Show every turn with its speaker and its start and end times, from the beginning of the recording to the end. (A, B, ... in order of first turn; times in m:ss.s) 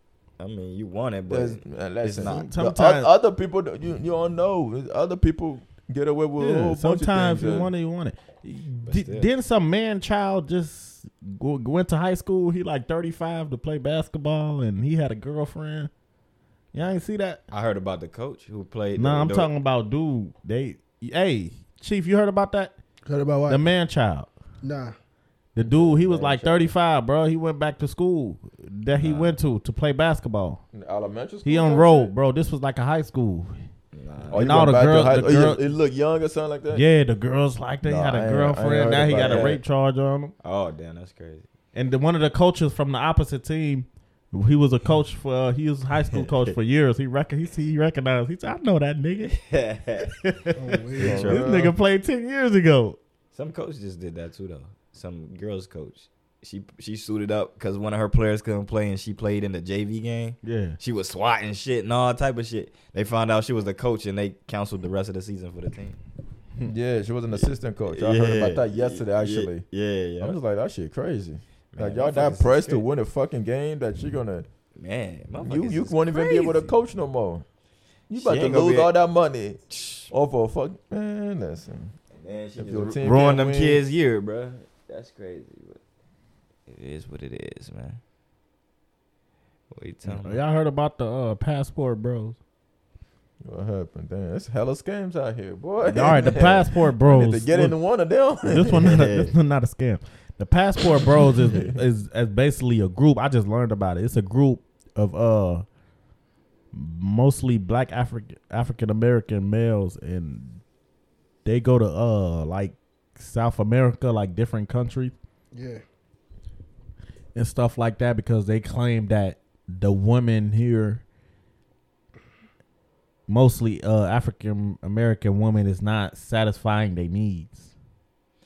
0:00.4-0:02.5 A
0:01.3-0:07.7 B
0:02.2-0:03.1 C
0:06.4-0:15.9 C
0:08.8-0:09.3 A
0:16.7-0:17.4 C
0:17.5-0:19.5 A
0:19.0-0:22.7 C
0:23.0-0:23.6 D
0:23.5-0:24.3 C
0:24.6-0:24.9 D
0:25.5-0:30.6 C
0:25.6-0:26.7 B
0:29.0-0:29.4 A
0:30.7-0:32.1 B
0:31.4-0:33.6 C
0:33.9-0:34.5 A
0:34.3-0:36.8 B
0:34.3-0:35.6 C
0:36.7-0:40.3 C
0:37.8-0:39.6 B
0:39.1-0:39.6 A
0:40.4-0:41.4 A
0:41.7-0:49.3 C
0:46.1-0:46.5 A
0:49.2-0:50.4 A
0:50.0-0:50.5 C
0:50.6-0:51.3 D
0:51.0-0:51.4 A
0:51.0-0:51.7 B
0:51.2-0:53.0 C
0:53.3-1:06.0 A
1:00.4-1:00.8 C
1:06.6-1:09.6 B
1:07.3-1:10.4 A
1:10.2-1:14.5 B
1:11.7-1:12.8 A
1:14.7-1:16.7 A
1:15.4-1:17.4 B
1:18.1-1:21.9 B
1:18.1-1:18.9 A
1:19.7-1:20.1 A
1:22.1-1:25.8 A
1:22.6-1:23.8 B
1:26.7-1:28.0 A
1:29.7-1:30.4 A
1:30.1-1:32.4 C
1:33.4-1:38.8 B
1:35.8-1:45.6 C
1:38.8-1:39.3 A
1:46.7-1:50.6 C
1:51.4-1:55.1 C
1:55.5-1:55.8 D
1:57.3-2:01.0 C
2:03.3-2:07.7 C